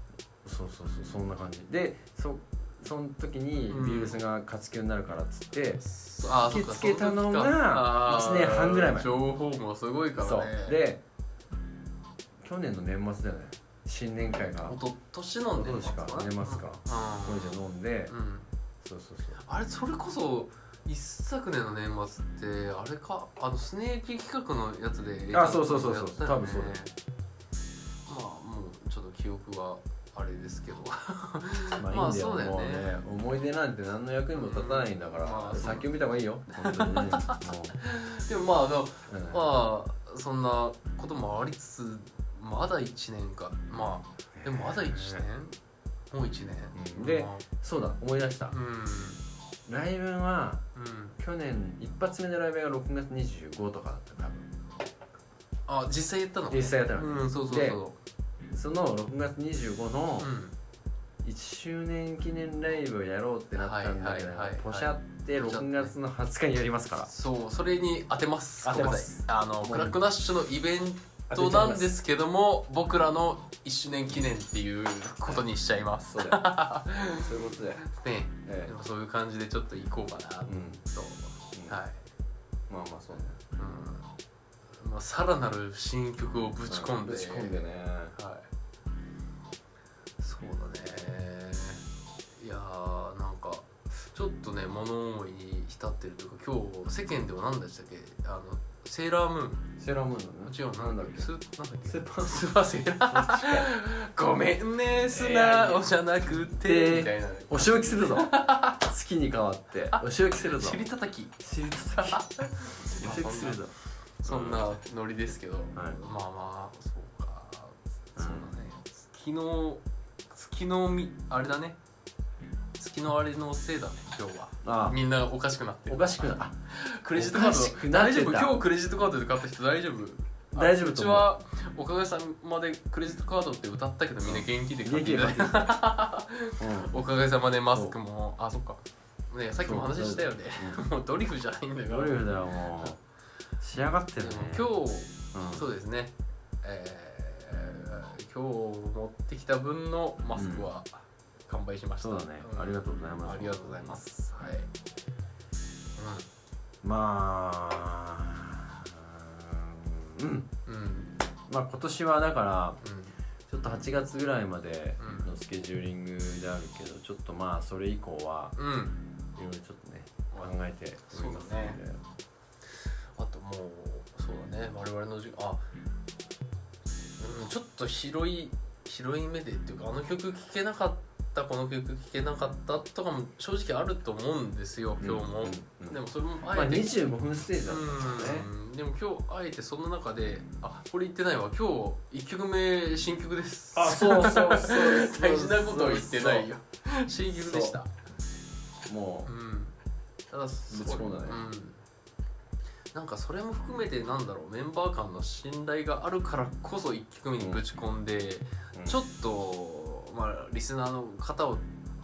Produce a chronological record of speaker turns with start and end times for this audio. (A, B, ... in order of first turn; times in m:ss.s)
0:00.4-0:09.1 A
0:03.7-0:04.2 B
0:05.8-0:10.8 B
0:10.2-0:11.0 A
0:12.4-0:14.8 A
0:14.6-0:18.5 B
0:15.5-0:18.1 A
0:18.8-0:19.4 A
0:19.4-0:26.9 B
0:25.3-0:26.8 A
0:28.0-0:32.9 B
0:31.8-0:37.8 A
0:34.3-0:35.9 B
0:36.5-0:45.6 B
0:39.1-0:39.6 A
0:44.3-0:45.2 A
0:46.1-0:47.4 B
0:46.7-0:48.5 A
0:48.5-0:49.2 B
0:49.7-0:50.6 A
0:50.7-0:51.2 B
0:51.2-0:54.5 A
0:55.7-0:58.0 B
0:56.5-0:57.8 A
0:58.5-1:00.3 A
1:00.2-1:00.5 B
1:01.2-1:07.1 A
1:03.5-1:05.9 B
1:07.0-1:22.0 B
1:08.6-1:10.0 A
1:11.3-1:11.9 A
1:16.0-1:16.5 A
1:17.0-1:17.8 A
1:18.5-1:18.7 A
1:20.4-1:20.8 A
1:21.5-1:21.8 A
1:22.7-1:23.4 A
1:23.6-1:24.1 B
1:24.8-1:28.5 B
1:26.7-1:28.1 A
1:30.2-1:31.8 B
1:32.4-1:39.7 B
1:39.8-1:41.3 A
1:40.4-1:48.9 B
1:41.8-1:43.7 A
1:45.1-1:50.8 A
1:49.9-1:53.6 B
1:51.4-1:52.2 A
1:52.9-1:54.8 A
1:54.2-2:01.8 B
1:55.7-1:56.0 A
1:58.2-1:58.5 A
2:02.8-2:22.9 B
2:04.6-2:05.0 A
2:05.9-2:06.5 A
2:07.1-2:08.6 A
2:10.5-2:11.3 A
2:14.2-2:15.8 A
2:16.6-2:16.9 A
2:19.6-2:20.8 A
2:21.9-2:23.0 A
2:23.6-2:24.7 A
2:24.2-2:34.7 B
2:25.3-2:25.6 A
2:30.3-2:30.7 A
2:32.0-2:34.0 A
2:36.0-2:36.2 B
2:36.8-2:40.5 A
2:40.6-2:41.2 B
2:41.5-2:42.8 A
2:42.8-2:43.2 B
2:43.5-2:48.6 A
2:45.0-2:45.3 B
2:48.6-2:49.0 B
2:49.4-2:52.0 A
2:51.1-2:51.8 B
2:53.2-2:55.6 B
2:57.2-3:06.9 B
3:05.0-3:08.5 A
3:07.6-3:17.9 B
3:13.8-3:16.5 A
3:17.3-3:17.8 A
3:18.8-3:19.3 A
3:19.2-3:19.7 B
3:20.3-3:21.8 B
3:20.7-3:21.4 A
3:22.9-3:31.7 B
3:28.7-3:29.0 A